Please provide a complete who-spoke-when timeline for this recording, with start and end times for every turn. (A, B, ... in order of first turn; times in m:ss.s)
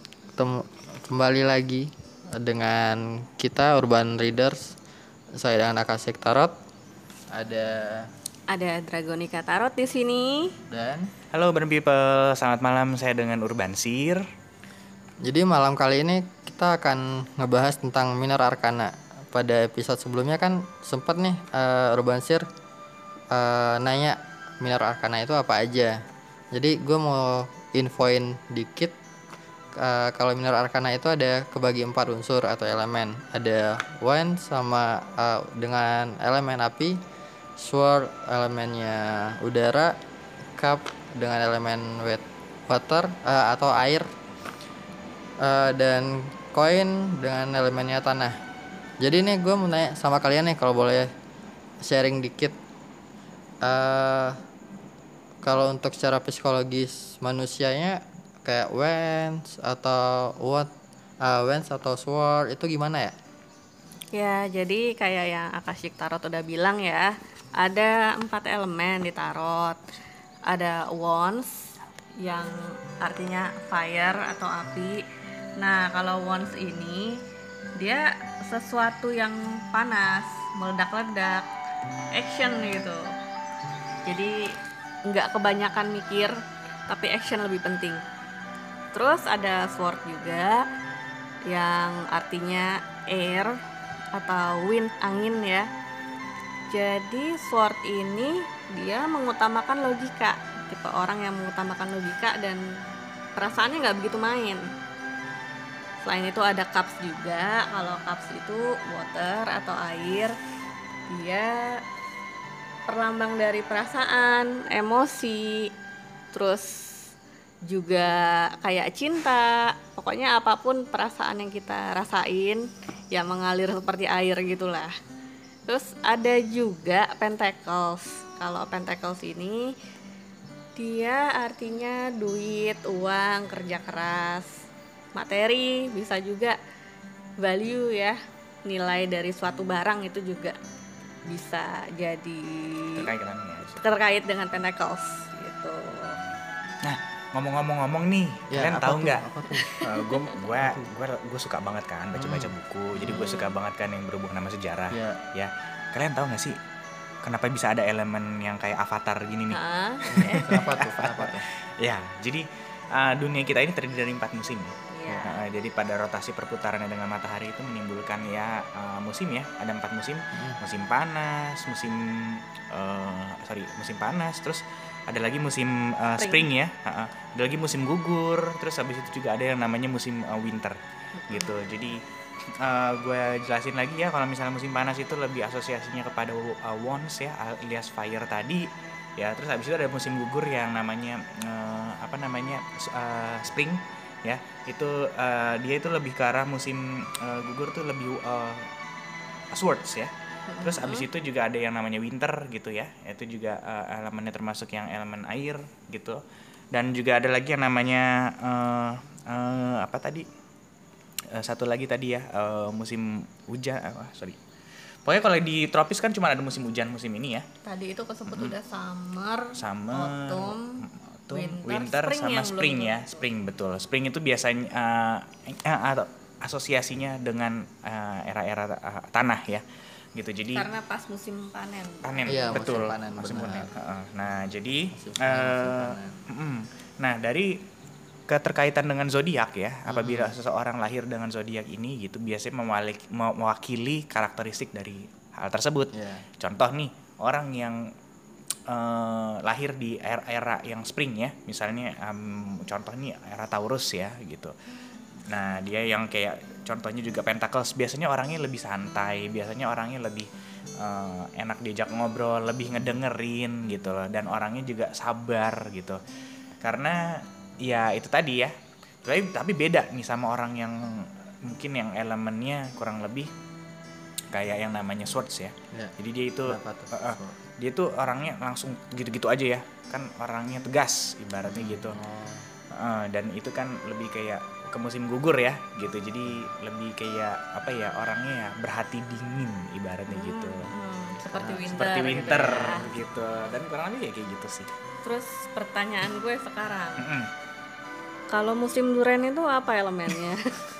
0:00.4-0:04.6 A
0:05.4-0:06.5 A
0:07.3-0:08.1 A
0:08.5-0:10.5 B
0:10.7-0:11.1 A
0:11.3-0:14.2 C
0:15.2-0:22.4 A
0:23.3-0:26.0 A
0:26.5-0:28.9 A
0:29.8-0:37.0 A
0:37.6-0:40.0 A
0:40.6-0:44.0 A
0:45.4-0:48.3 A
0:49.0-0:51.1 A
0:51.8-0:52.6 A
0:53.6-0:54.4 A
0:55.4-1:00.7 A
1:01.2-1:03.1 A
1:04.1-1:09.8 B
1:10.5-1:11.6 B
1:12.2-1:15.0 B
1:15.6-1:17.2 B
1:17.8-1:21.5 B
1:22.1-1:23.1 B
1:24.0-1:24.5 B
1:25.0-1:26.3 B
1:26.9-1:28.0 B
1:28.9-1:30.6 B
1:31.5-1:33.6 B
1:34.1-1:35.6 B
1:36.7-1:42.6 B
1:43.4-1:44.6 B
1:46.0-1:50.3 B
1:51.1-1:51.7 B
1:52.9-1:55.7 B
1:56.3-1:56.8 B
1:57.6-2:04.9 B
2:05.7-2:09.7 B
2:10.8-2:14.5 B
2:15.1-2:16.6 B
2:17.4-2:20.6 B
2:21.3-2:23.1 B
2:23.0-2:23.8 C
2:23.8-2:26.2 B
2:26.8-2:29.2 C
2:28.5-2:30.9 A
2:30.0-2:36.6 C
2:32.1-2:33.2 A
2:33.1-2:33.5 B
2:34.9-2:35.2 A
2:37.2-2:39.6 C
2:39.5-2:40.4 B
2:40.1-3:00.8 C
2:40.1-2:41.4 A
2:44.9-2:45.4 B
2:50.3-2:50.6 A
2:56.2-2:56.5 B
3:01.3-3:01.6 B
3:01.3-3:02.0 C
3:02.6-3:18.7 C
3:19.5-3:26.2 C
3:20.5-3:21.1 B
3:26.7-3:30.2 C
3:31.3-3:34.4 C
3:35.0-3:37.4 C
3:37.6-3:43.2 B
3:38.3-3:38.5 C
3:39.6-3:49.6 C
3:50.2-3:50.6 C
3:50.5-3:52.6 B
3:52.0-3:57.6 C
3:52.2-3:53.7 A
3:54.9-3:56.2 A
3:58.3-4:07.8 C
3:59.9-4:00.4 A
4:05.9-4:06.3 A
4:08.7-4:14.5 C
4:15.3-4:20.3 C
4:20.8-4:26.0 C
4:26.6-4:28.5 C
4:29.0-4:33.3 C
4:34.3-4:42.0 C
4:36.4-4:37.4 A
4:41.5-4:42.5 A
4:42.7-4:50.7 C
4:50.1-4:52.8 B
4:51.3-4:53.0 A
4:51.6-4:54.7 C
4:55.0-4:57.1 B
4:57.0-4:57.3 C
4:58.3-5:00.4 B